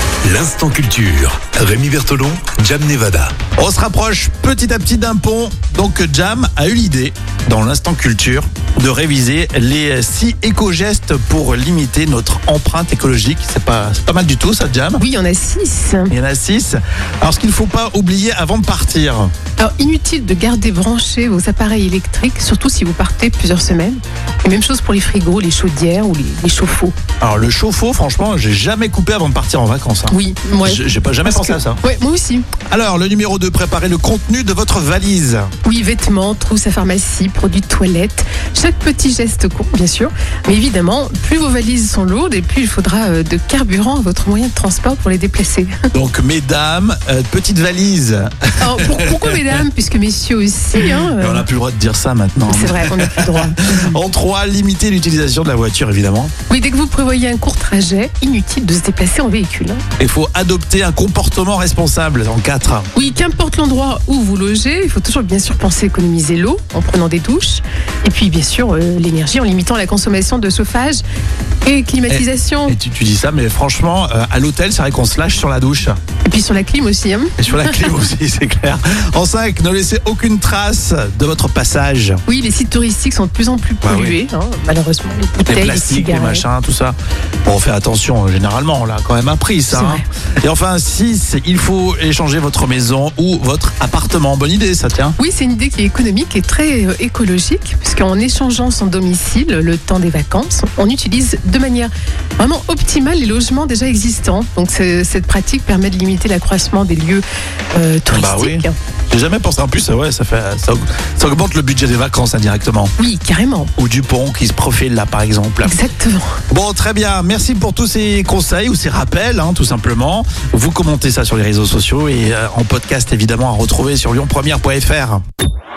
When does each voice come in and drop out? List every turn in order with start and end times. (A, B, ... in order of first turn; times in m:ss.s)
0:00.2-0:03.3 A
0:03.6-0:15.0 B
0:15.0-0:16.1 C
0:16.1-0:19.3 B
0:19.6-0:27.0 C
0:27.2-0:31.8 B
0:30.1-0:32.5 C
0:32.7-0:35.5 B
0:35.6-0:45.8 C
0:45.9-0:49.6 B
0:48.6-0:51.5 C
0:50.8-0:56.3 B
0:52.5-0:53.9 C
0:56.5-0:59.8 C
1:00.0-1:02.9 B
1:03.0-1:11.0 C
1:11.6-1:12.8 C
1:12.1-1:16.0 B
1:16.3-1:17.9 C
1:17.4-1:22.2 B
1:22.3-1:26.4 C
1:23.8-1:24.2 B
1:25.5-1:35.2 B
1:29.7-1:30.0 C
1:35.2-1:48.8 C
1:48.1-1:52.9 B
1:53.0-1:53.7 C
1:53.8-1:55.7 B
1:55.6-1:56.4 C
1:56.5-2:05.2 B